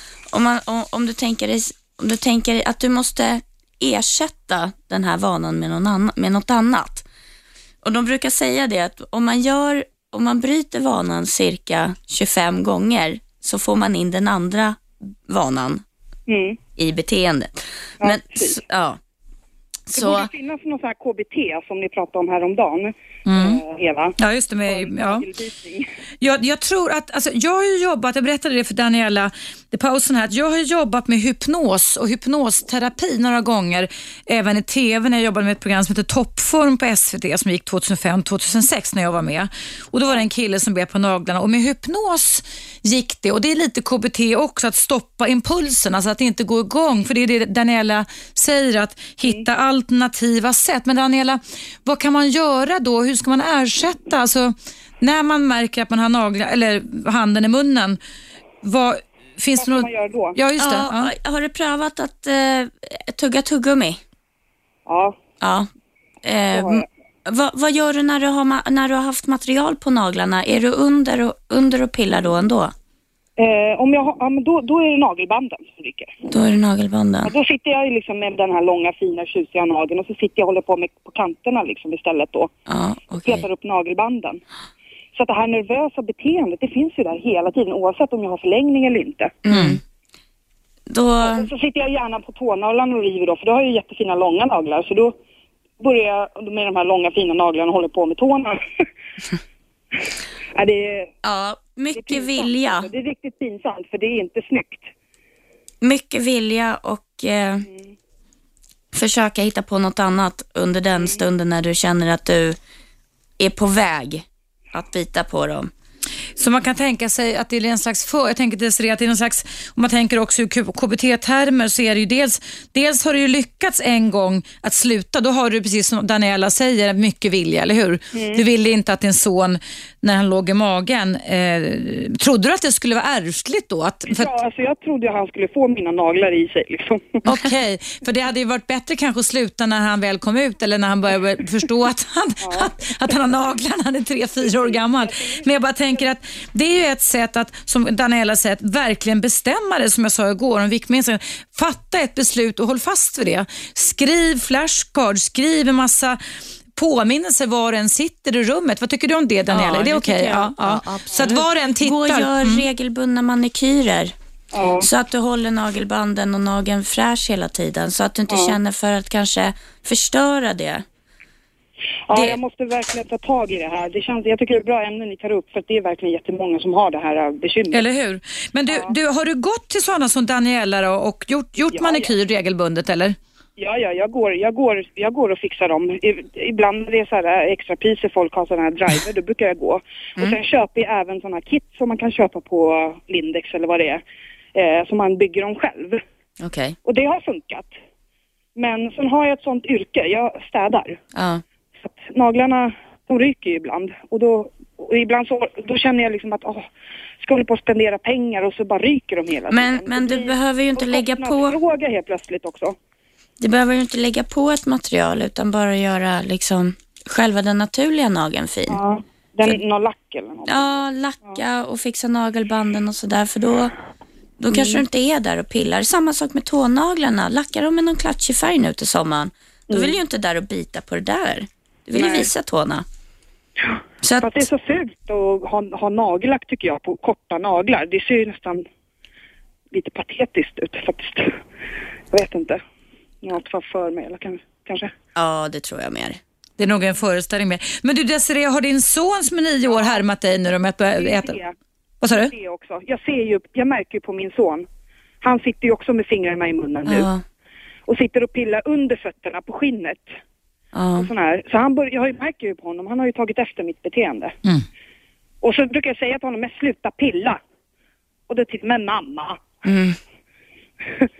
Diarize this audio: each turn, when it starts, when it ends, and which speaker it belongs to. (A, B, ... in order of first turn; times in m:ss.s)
0:00.3-0:07.1 A
0:07.8-0:15.8 A
0:16.3-0:16.6 B
0:16.8-0:19.0 A
0:18.0-0:18.6 B
0:19.9-0:20.3 A
0:20.0-0:25.9 B
0:23.3-0:23.6 C
0:24.2-0:25.3 C
0:26.2-0:58.0 C
0:58.6-1:01.1 C
0:59.6-1:00.4 B
1:00.6-1:04.0 A
1:04.9-1:05.2 B
1:05.4-1:05.7 A
1:06.2-1:12.7 A
1:06.5-1:06.9 B
1:13.4-1:16.3 B
1:16.3-1:17.3 A
1:17.3-1:22.5 B
1:22.7-1:23.5 A
1:23.2-1:24.4 B
1:25.2-1:29.4 B
1:29.4-1:29.8 A
1:29.5-1:29.8 C
1:30.9-1:31.5 A
1:31.2-1:35.2 B
1:35.8-1:38.6 B
1:40.0-1:41.1 B
1:41.2-1:42.9 A
1:42.0-1:44.9 B
1:45.8-1:47.7 A
1:48.9-1:52.6 A
1:53.4-1:55.7 A
1:56.4-2:14.3 C
2:08.1-2:08.4 B
2:14.1-2:17.3 B
2:17.2-2:36.2 C
2:22.4-2:22.7 B
2:24.4-2:25.4 B
2:36.8-2:42.6 C
2:39.5-2:44.1 A
2:44.5-2:44.9 B
2:44.8-2:50.8 A
2:48.3-2:48.6 B
2:52.1-2:57.8 B
2:52.1-2:52.4 C
2:57.7-3:03.2 C
2:58.7-2:58.9 B
3:01.7-3:02.1 B
3:03.6-3:14.0 B
3:14.5-3:16.0 B
3:16.4-3:16.8 A
3:16.8-3:17.7 B
3:18.6-3:21.0 B
3:21.1-3:21.4 A
3:21.8-3:26.7 B
3:27.2-3:32.8 B
3:29.5-3:31.6 A
3:33.4-3:38.8 A
3:38.7-3:40.8 B
3:40.5-3:43.7 A
3:44.4-3:52.9 A
3:44.5-3:44.8 B
3:52.0-3:52.3 B
3:53.7-3:58.6 B
3:54.0-3:54.5 A
3:59.7-4:01.4 B
4:02.1-4:02.6 B
4:03.2-4:04.9 B
4:05.2-4:06.2 A
4:06.6-4:11.4 C
4:09.7-4:10.0 B
4:11.0-4:11.6 B
4:12.0-4:12.3 C
4:12.1-4:14.7 B
4:15.2-4:17.1 B
4:16.9-4:17.2 A
4:17.9-4:20.1 B
4:20.7-4:21.1 A
4:21.0-4:24.4 B
4:25.4-4:27.4 B
4:28.3-4:29.4 B
4:29.6-4:30.0 A
4:30.8-4:31.1 B